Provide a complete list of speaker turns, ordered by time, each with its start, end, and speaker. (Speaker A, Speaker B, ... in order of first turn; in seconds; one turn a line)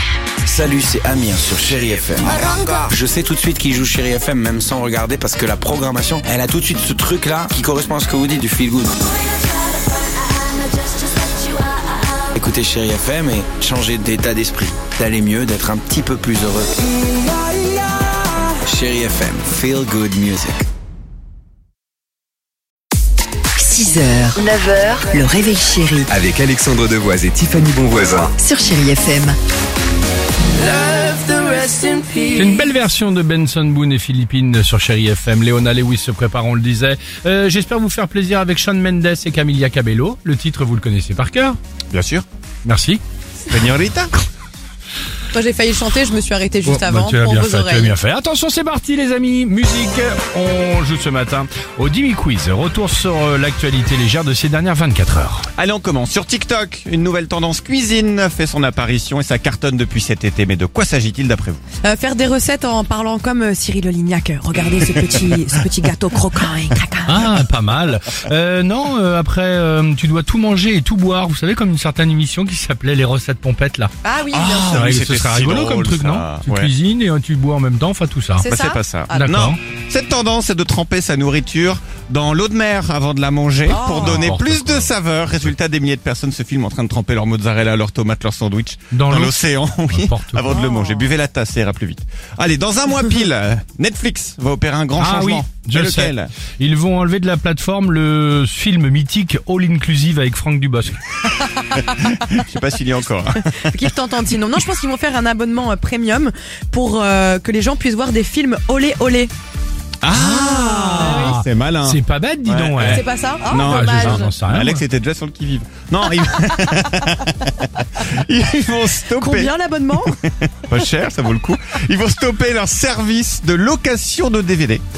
Speaker A: 0.5-9.0
Speaker A: 12.3-16.7
Speaker A: 18.6-20.6
Speaker B: 23.6-26.1
Speaker C: 26.1-28.3
Speaker B: 28.4-29.4
Speaker A: 31.6-32.0
Speaker D: 32.3-41.6
Speaker E: 41.9-42.2
Speaker D: 42.6-43.0
Speaker E: 43.5-44.1
Speaker F: 45.3-48.0
Speaker D: 46.6-55.5
Speaker E: 55.6-61.6
Speaker F: 61.8-67.3
Speaker D: 67.1-78.5
Speaker F: 74.0-74.9
Speaker E: 74.3-76.7
Speaker F: 78.4-79.3
Speaker E: 78.5-96.4
Speaker D: 79.1-79.6
Speaker F: 83.7-84.3
Speaker D: 83.9-85.6
Speaker D: 88.9-90.5
Speaker F: 90.5-91.1
Speaker D: 95.0-101.1
Speaker F: 101.7-102.2
Speaker E: 102.0-103.9
Speaker F: 103.7-109.3
Speaker E: 110.0-119.5
Speaker D: 110.1-114.8
Speaker F: 111.0-111.4
Speaker F: 112.8-114.3
Speaker F: 119.2-120.2
Speaker E: 120.5-124.8